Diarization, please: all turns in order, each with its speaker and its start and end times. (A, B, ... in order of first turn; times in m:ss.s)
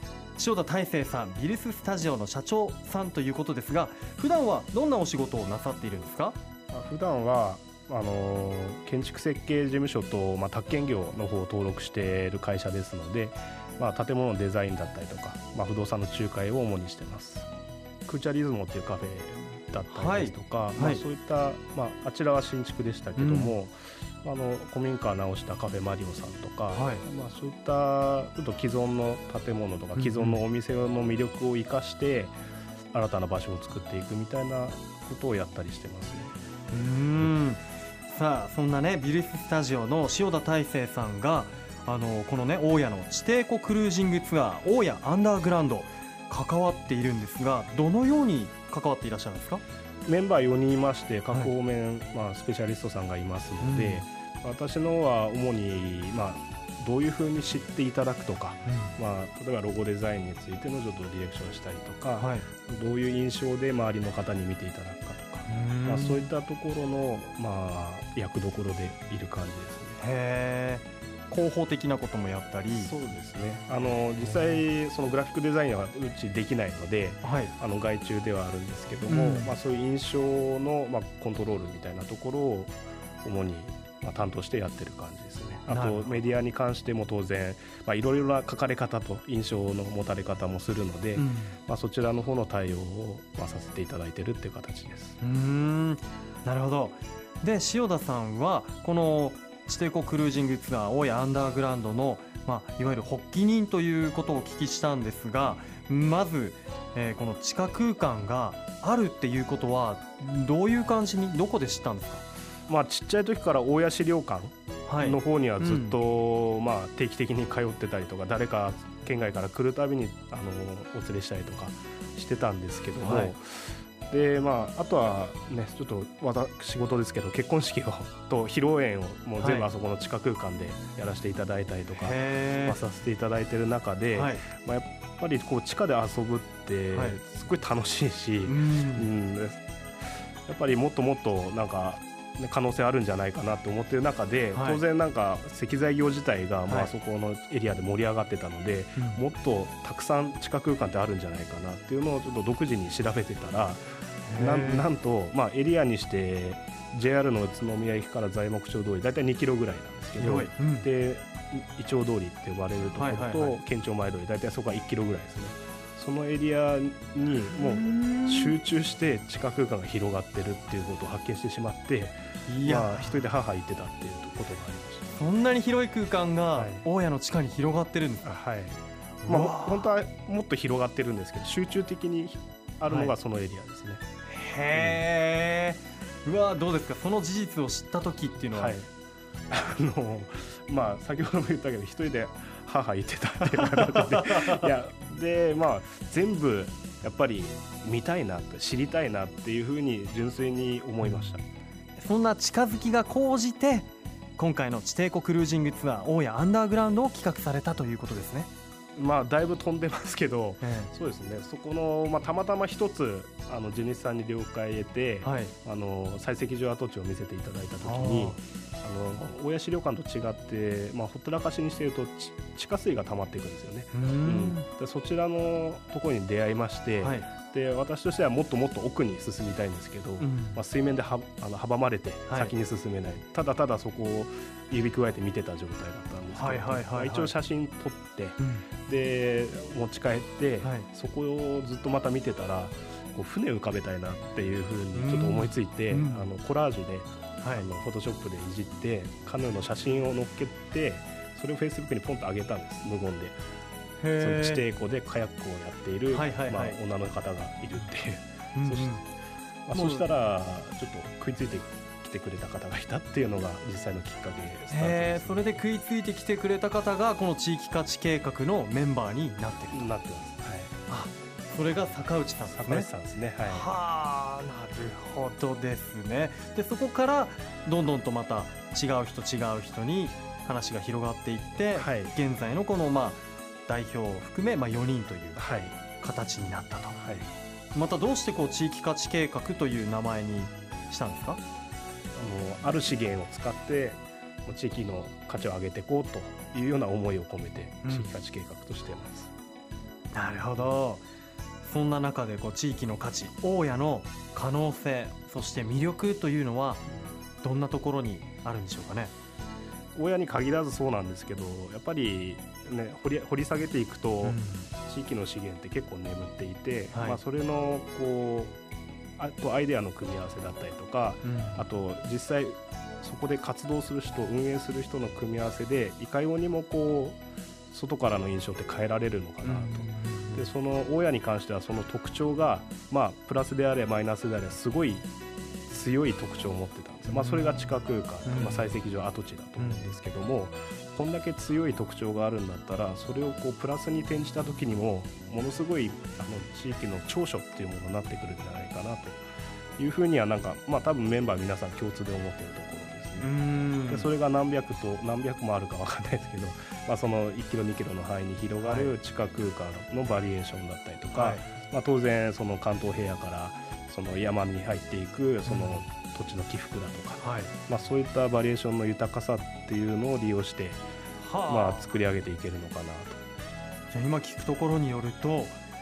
0:00.4-0:06.4 A
0:06.7-0:17.5 B
0:18.1-0:32.3 B
0:19.9-0:21.0 A
0:23.2-0:23.6 A
0:26.7-0:27.0 A
0:30.0-0:30.4 A
0:32.9-0:36.3 B
0:36.7-0:49.6 A
0:50.0-1:10.0 B
0:53.6-0:54.1 A
0:58.7-0:59.0 A
1:02.2-1:02.5 A
1:05.4-1:06.3 A
1:10.0-1:12.9 A
1:12.7-1:35.2 B
1:13.8-1:14.6 A
1:17.2-1:17.5 A
1:19.1-1:19.5 A
1:25.7-1:26.2 A
1:31.2-1:31.6 A
1:35.2-1:52.2 A
1:52.7-2:33.8 B
1:54.9-1:56.0 A
2:03.0-2:03.3 A
2:09.4-2:09.7 A
2:12.0-2:12.8 A
2:14.1-2:14.4 A
2:18.4-2:19.1 A
2:24.5-2:24.8 A
2:34.2-2:34.9 A
2:34.3-2:55.2 B
2:40.2-2:40.9 A
2:43.0-2:43.6 A
2:47.5-2:48.6 A
2:52.5-2:53.2 A
2:55.1-2:58.3 A
2:56.5-2:56.9 B
2:58.2-3:04.0 B
2:59.2-2:59.9 A
3:02.9-3:03.1 A
3:04.3-3:08.8 A
3:04.7-3:05.1 B
3:08.5-3:08.9 B
3:09.5-3:21.4 B
3:13.6-3:14.6 A
3:21.0-3:21.4 A
3:22.0-3:28.5 A
3:28.9-4:13.4 B
3:30.6-3:30.9 A
3:35.2-3:35.5 A
3:37.8-3:38.4 A
3:43.9-3:44.6 A
3:47.0-3:47.3 A
3:50.2-3:50.6 A
3:52.3-3:52.5 A
3:56.3-3:57.3 A
3:58.4-3:58.6 A
4:04.9-4:06.3 A
4:07.4-4:07.7 A
4:14.0-4:14.6 A
4:14.2-4:19.1 B
4:16.1-4:16.8 A
4:18.5-4:19.0 A
4:19.6-4:25.6 B
4:19.7-4:20.1 A
4:24.7-4:29.9 A
4:29.7-4:30.7 B
4:30.9-4:32.9 A
4:32.4-4:33.7 B
4:33.4-4:45.4 A
4:41.7-4:42.2 B
4:45.4-4:45.8 B
4:46.0-4:47.0 A
4:47.0-4:47.3 B
4:47.7-4:51.4 A
4:52.2-4:59.3 B
4:57.8-4:58.1 A
5:00.1-5:01.0 A
5:01.6-5:06.8 A
5:07.4-5:09.1 A
5:09.9-5:18.6 B
5:14.2-5:14.7 A
5:16.9-5:17.2 A
5:19.2-5:35.1 B
5:21.2-5:21.6 A
5:29.4-5:30.5 A
5:35.7-5:49.2 B
5:37.0-5:37.7 A
5:38.2-5:38.7 A
5:39.6-5:39.9 A
5:49.8-5:53.3 B
5:53.2-5:54.1 A
5:53.9-6:10.8 B
5:58.6-5:58.9 A
6:01.1-6:01.4 A
6:05.4-6:05.8 A
6:07.2-6:07.5 A
6:11.2-6:11.9 A
6:11.5-6:13.2 B
6:13.9-6:15.6 A